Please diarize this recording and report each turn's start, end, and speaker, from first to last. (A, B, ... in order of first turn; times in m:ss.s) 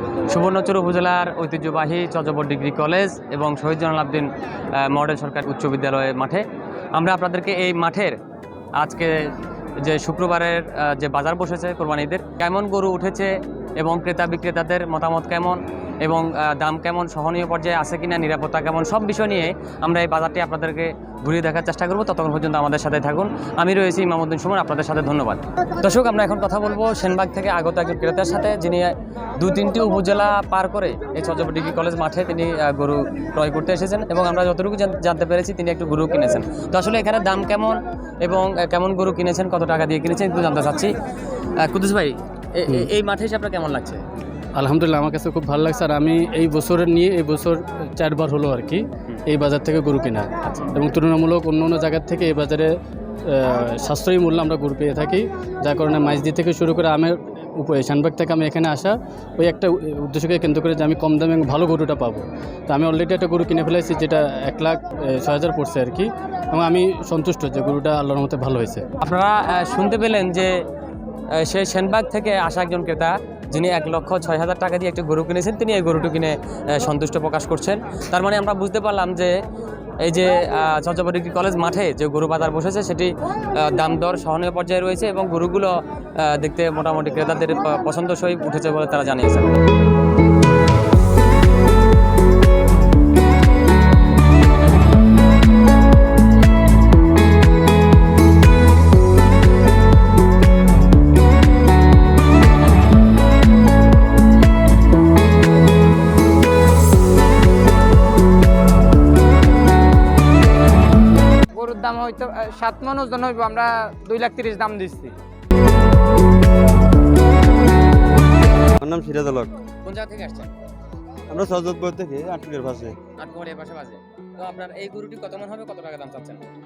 0:00.3-0:08.2 A
0:08.8-0:40.9 A
0:41.6-0:44.0 A
0:44.6-0:52.7 B
0:50.4-0:50.7 A
0:53.2-1:08.8 B
1:09.0-1:10.6 A
1:11.4-1:19.4 A
1:20.0-1:29.5 A
1:51.5-1:55.1 C
1:58.8-1:59.5 D
1:59.8-2:00.5 A
2:01.3-2:03.0 D
2:03.2-2:06.4 A